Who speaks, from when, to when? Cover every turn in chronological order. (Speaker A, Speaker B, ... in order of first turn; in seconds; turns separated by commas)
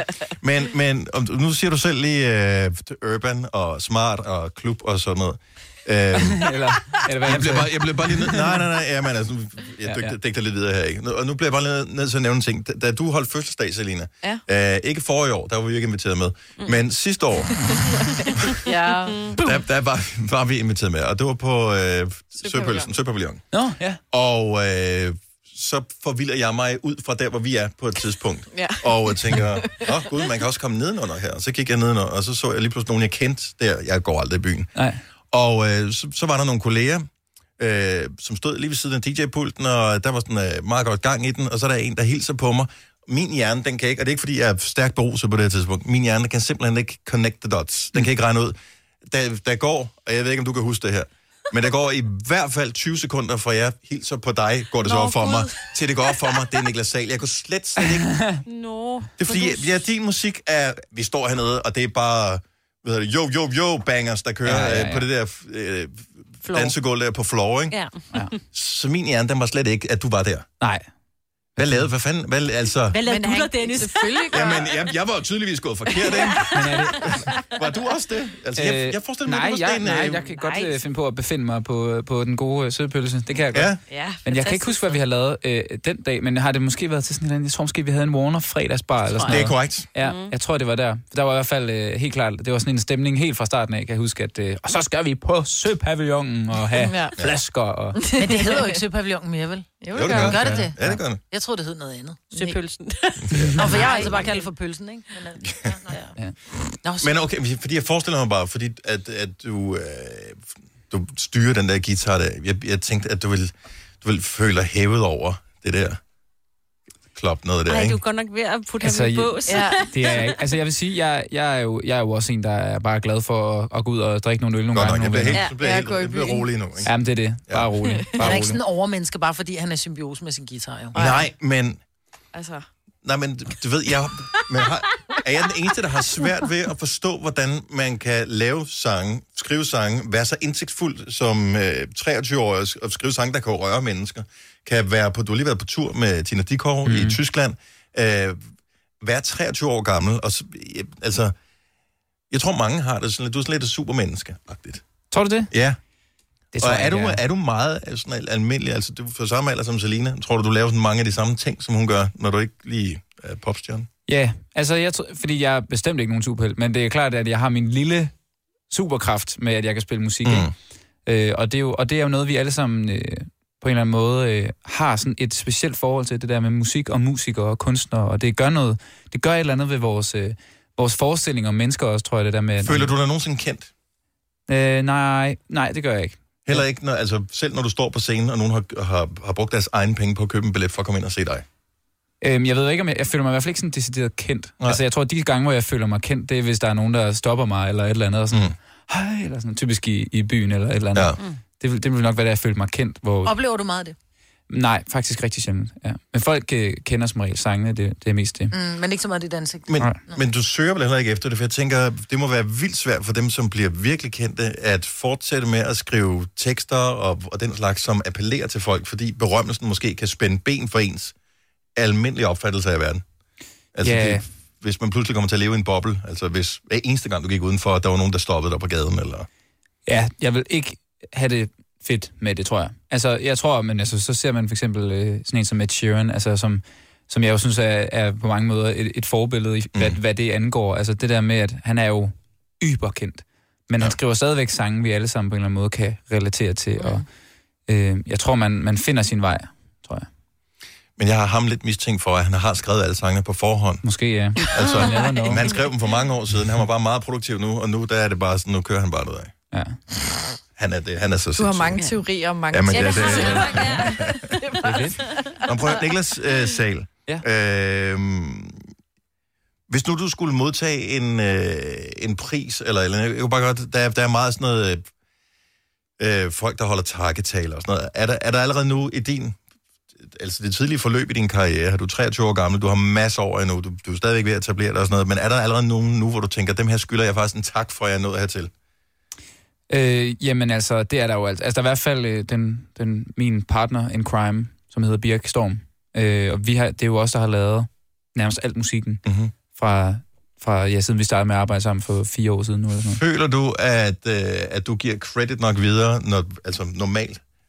Speaker A: 0.4-6.6, Speaker B: 6.1-8.6, Speaker A: 7.2-17.8, Speaker B: 9.8-10.2, Speaker C: 18.6-19.4, Speaker D: 19.1-19.3, Speaker A: 19.4-23.4, Speaker C: 22.4-22.9, Speaker B: 23.5-24.0, Speaker A: 24.1-34.7, Speaker C: 28.5-29.9, Speaker A: 35.3-37.1, Speaker A: 37.6-58.2, Speaker D: 54.8-55.5, Speaker B: 57.8-58.4, Speaker D: 58.5-59.8, Speaker A: 59.2-67.8, Speaker B: 64.4-65.0, Speaker D: 66.5-66.7, Speaker D: 67.7-68.0, Speaker A: 68.5-70.5, Speaker B: 70.6-70.8, Speaker A: 71.6-73.0, Speaker D: 72.9-74.5, Speaker C: 73.0-74.7, Speaker A: 74.3-80.2, Speaker B: 76.5-77.0, Speaker B: 78.5-83.7, Speaker D: 80.2-80.7, Speaker A: 83.5-83.8, Speaker D: 83.9-85.0, Speaker B: 84.2-98.0, Speaker A: 89.3-89.9, Speaker D: 90.0-90.3, Speaker C: 96.8-97.2, Speaker C: 97.9-98.8, Speaker E: 98.1-102.2, Speaker C: 99.8-100.4, Speaker A: 99.9-101.2, Speaker B: 100.4-100.9, Speaker D: 102.3-104.4, Speaker C: 102.3-102.6, Speaker A: 103.3-103.7, Speaker E: 103.5-106.1, Speaker C: 103.7-104.2, Speaker E: 106.8-107.1, Speaker A: 107.0-116.0, Speaker A: 117.1-118.0, Speaker D: 117.7-120.3, Speaker B: 118.8-125.5, Speaker C: 119.5-119.9, Speaker A: 124.7-126.9, Speaker C: 125.5-126.5, Speaker B: 126.8-128.6, Speaker A: 127.5-128.5, Speaker E: 128.2-131.0, Speaker C: 130.9-131.3, Speaker A: 130.9-131.8, Speaker C: 132.3-132.7, Speaker A: 133.0-148.4, Speaker B: 146.8-147.2, Speaker A: 149.0-151.3, Speaker A: 152.3-154.8, Speaker B: 155.1-155.5, Speaker A: 155.5-155.8, Speaker B: 156.5-157.2, Speaker A: 156.6-163.9, Speaker B: 164.1-168.1, Speaker B: 168.7-170.5, Speaker A: 170.2-170.5, Speaker B: 171.1-182.9, Speaker A: 182.6-183.7, Speaker B: 184.5-186.6, Speaker A: 186.4-191.4, Speaker B: 192.2-203.3, Speaker E: 203.2-203.9, Speaker B: 204.5-208.5, Speaker E: 208.5-210.2, Speaker A: 209.7-221.1, Speaker A: 221.8-223.0, Speaker A: 223.7-229.3, Speaker B: 223.8-224.2, Speaker B: 229.8-247.1, Speaker A: 239.7-240.0, Speaker B: 247.7-250.1, Speaker A: 251.0-253.8, Speaker B: 253.8-255.6, Speaker A: 254.4-259.3, Speaker B: 259.5-259.8, Speaker A: 260.6-261.9, Speaker C: 261.4-265.4, Speaker A: 262.5-264.4, Speaker D: 262.7-264.1, Speaker B: 264.6-265.0, Speaker A: 265.4-268.7, Speaker A: 269.7-274.9, Speaker A: 276.0-279.4, Speaker A: 280.0-288.5, Speaker B: 289.7-303.0, Speaker A: 299.0-299.3, Speaker A: 302.9-307.2